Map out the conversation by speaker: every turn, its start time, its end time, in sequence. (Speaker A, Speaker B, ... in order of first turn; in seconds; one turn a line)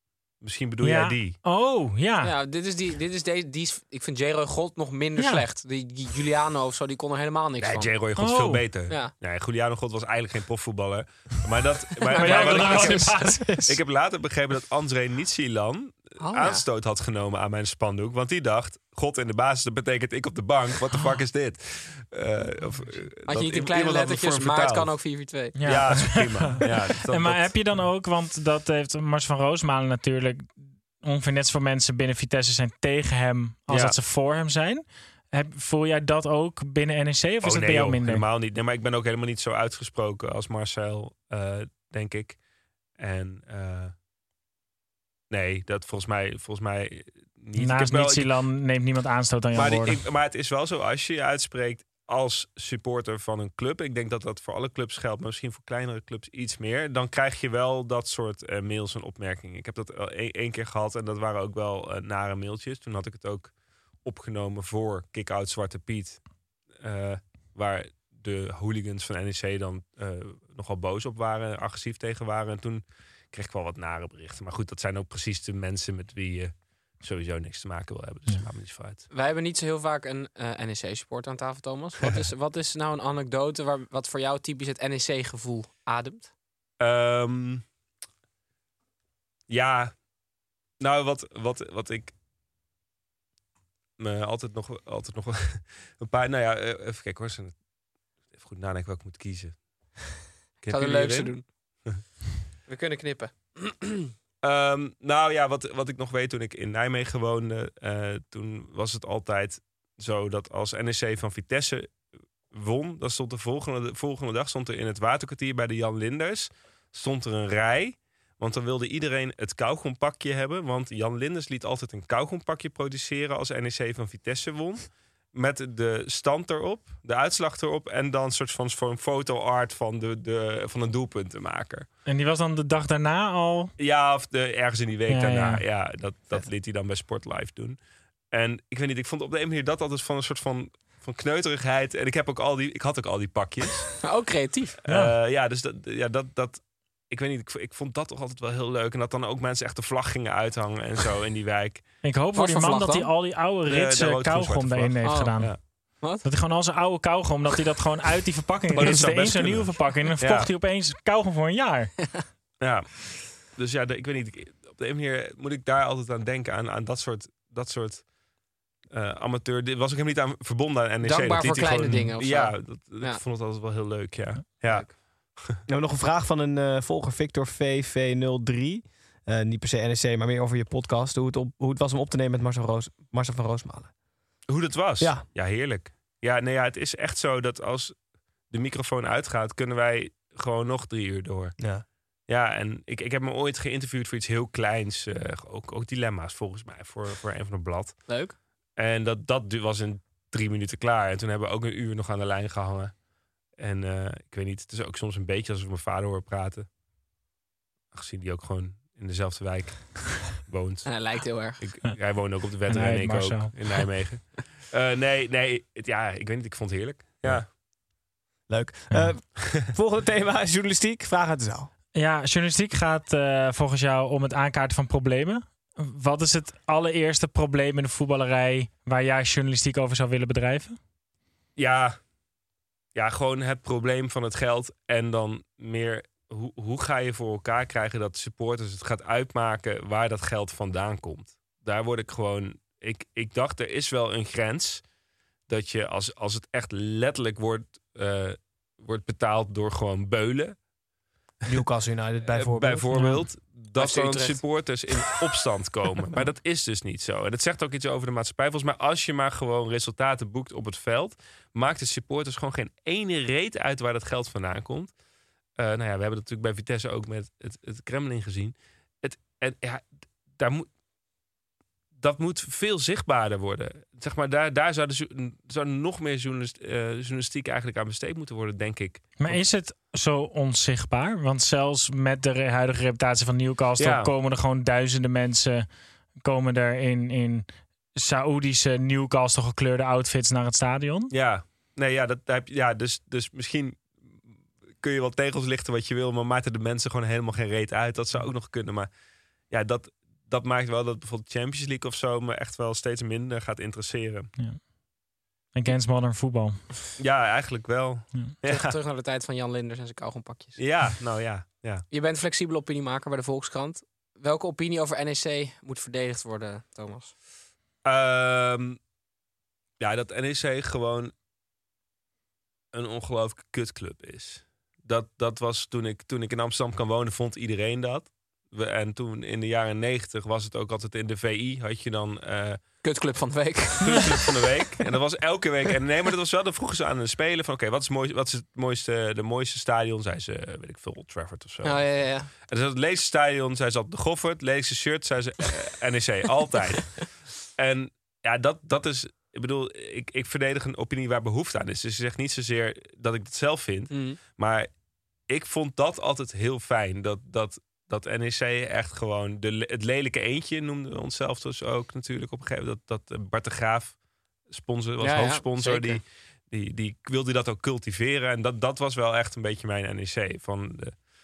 Speaker A: 0.4-1.4
Speaker B: 0.8-2.3
Speaker C: 2.2-8.0
Speaker B: 5.2-5.5
Speaker A: 7.6-25.0
Speaker B: 8.2-8.7
Speaker C: 8.9-9.1
Speaker C: 12.0-13.2
Speaker B: 12.1-13.8
Speaker C: 16.2-16.6
Speaker C: 23.2-25.6
Speaker B: 25.6-38.2
Speaker A: 25.6-27.5
Speaker A: 33.7-34.0
Speaker A: 37.4-42.4
Speaker A: 43.0-43.9
Speaker A: 45.3-48.4
Speaker B: 47.5-50.0
Speaker A: 49.5-63.5
Speaker A: 64.0-66.2
Speaker A: 66.8-79.0
Speaker C: 79.1-86.3
Speaker A: 86.8-87.6
Speaker A: 89.5-89.9
Speaker A: 90.8-92.1
Speaker A: 94.0-97.5
Speaker A: 98.3-99.6
Speaker A: 100.6-101.3
Speaker C: 100.7-101.5
Speaker C: 102.7-104.1
Speaker A: 104.4-111.9
Speaker A: 112.5-131.9
Speaker B: 132.1-133.7
Speaker A: 133.8-137.8
Speaker B: 135.1-135.6
Speaker A: 138.3-143.9
Speaker C: 144.0-144.8
Speaker A: 144.8-151.8
Speaker B: 144.9-145.1
Speaker B: 152.0-155.6
Speaker C: 152.3-153.1
Speaker A: 153.7-155.6
Speaker C: 155.0-155.3
Speaker C: 156.0-156.3
Speaker B: 156.2-161.9
Speaker A: 158.7-160.5
Speaker D: 158.8-159.1
Speaker A: 162.6-168.0
Speaker A: 168.9-175.6
Speaker C: 171.0-173.2
Speaker C: 174.6-174.9
Speaker D: 175.7-183.9
Speaker A: 184.5-187.9
Speaker D: 185.0-185.2
Speaker A: 188.5-191.5
Speaker A: 192.3-198.0
Speaker C: 198.1-198.3
Speaker A: 198.8-202.9
Speaker A: 203.6-206.7
Speaker A: 207.9-210.9
Speaker C: 210.8-211.6
Speaker A: 211.6-217.5
Speaker B: 212.7-213.9
Speaker D: 218.5-221.7
Speaker B: 221.9-230.8
Speaker A: 231.6-232.0
Speaker A: 232.9-244.8
Speaker A: 245.5-250.6
Speaker D: 251.5-253.0
Speaker A: 252.3-264.9
Speaker C: 253.8-254.4
Speaker A: 265.6-270.7
Speaker A: 271.9-279.4
Speaker B: 279.2-285.7
Speaker A: 283.8-284.1
Speaker B: 286.2-291.1
Speaker A: 291.1-294.0
Speaker A: 294.8-298.9
Speaker A: 299.5-304.3
Speaker B: 305.5-306.6
Speaker A: 307.0-308.7
Speaker C: 308.5-310.8
Speaker A: 310.6-311.8
Speaker C: 311.9-317.1
Speaker A: 317.8-318.8
Speaker A: 319.8-321.1
Speaker A: 322.7-332.6
Speaker C: 332.8-334.4
Speaker A: 333.8-341.9
Speaker C: 341.6-342.3
Speaker A: 342.5-347.0
Speaker A: 347.6-354.7
Speaker C: 353.9-354.2
Speaker A: 355.3-363.9
Speaker A: 364.5-370.9
Speaker C: 365.0-366.0